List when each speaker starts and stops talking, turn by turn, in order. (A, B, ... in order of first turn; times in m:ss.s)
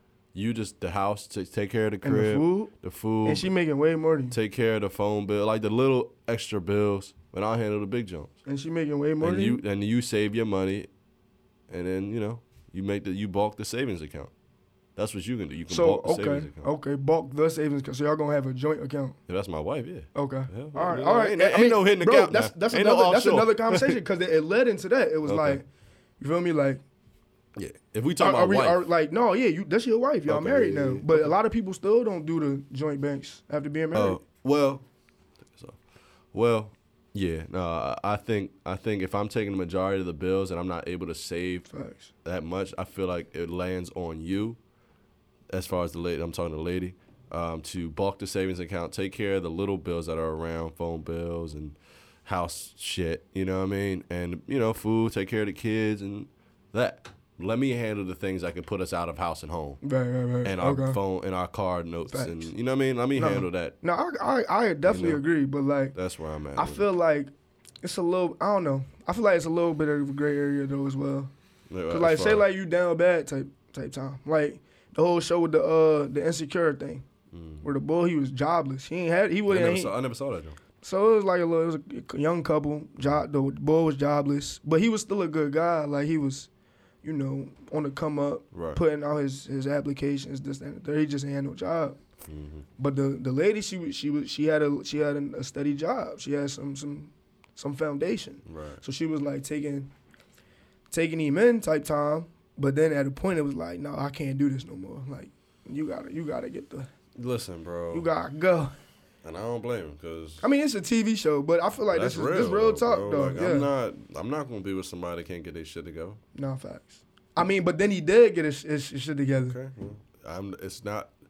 0:00.3-0:03.5 A
0:02.0-0:02.7 B
0:03.2-0:04.4 B
0:04.3-0:08.3 A
0:08.4-0:09.6 B
0:09.2-0:10.9 A
0:11.7-0:14.3 A
0:15.0-0:16.7 A
0:15.7-0:19.2 B
0:19.3-0:24.0 A
0:20.1-0:25.6 B
0:25.2-0:25.6 A
0:26.2-0:26.8 B
0:27.6-0:28.8 A
0:28.2-0:34.2 B
0:30.3-0:31.3 A
0:33.9-0:34.8 A
0:36.3-0:41.7 A
0:41.7-0:42.1 B
0:42.2-0:44.6 A
0:45.5-0:59.8 A
0:59.8-1:01.0 B
1:00.4-1:03.7 A
1:02.1-1:02.5 B
1:03.2-1:05.9 B
1:04.8-1:05.2 A
1:05.9-1:06.8 A
1:06.6-1:07.3 B
1:07.8-1:11.3 B
1:11.7-1:12.4 A
1:11.9-1:17.0 B
1:17.3-1:17.6 A
1:17.6-1:19.9 B
1:19.5-1:20.6 A
1:20.8-1:26.5 B
1:27.0-1:32.0 B
1:28.5-1:28.8 A
1:32.2-1:32.6 A
1:32.8-1:39.9 B
1:38.4-1:38.8 A
1:40.9-1:46.9 B
1:47.2-1:48.1 A
1:47.9-1:48.7 B
1:49.2-1:50.4 A
1:50.4-1:53.7 B
1:51.9-1:56.2 A
1:56.3-1:59.6 B
1:59.5-2:01.1 A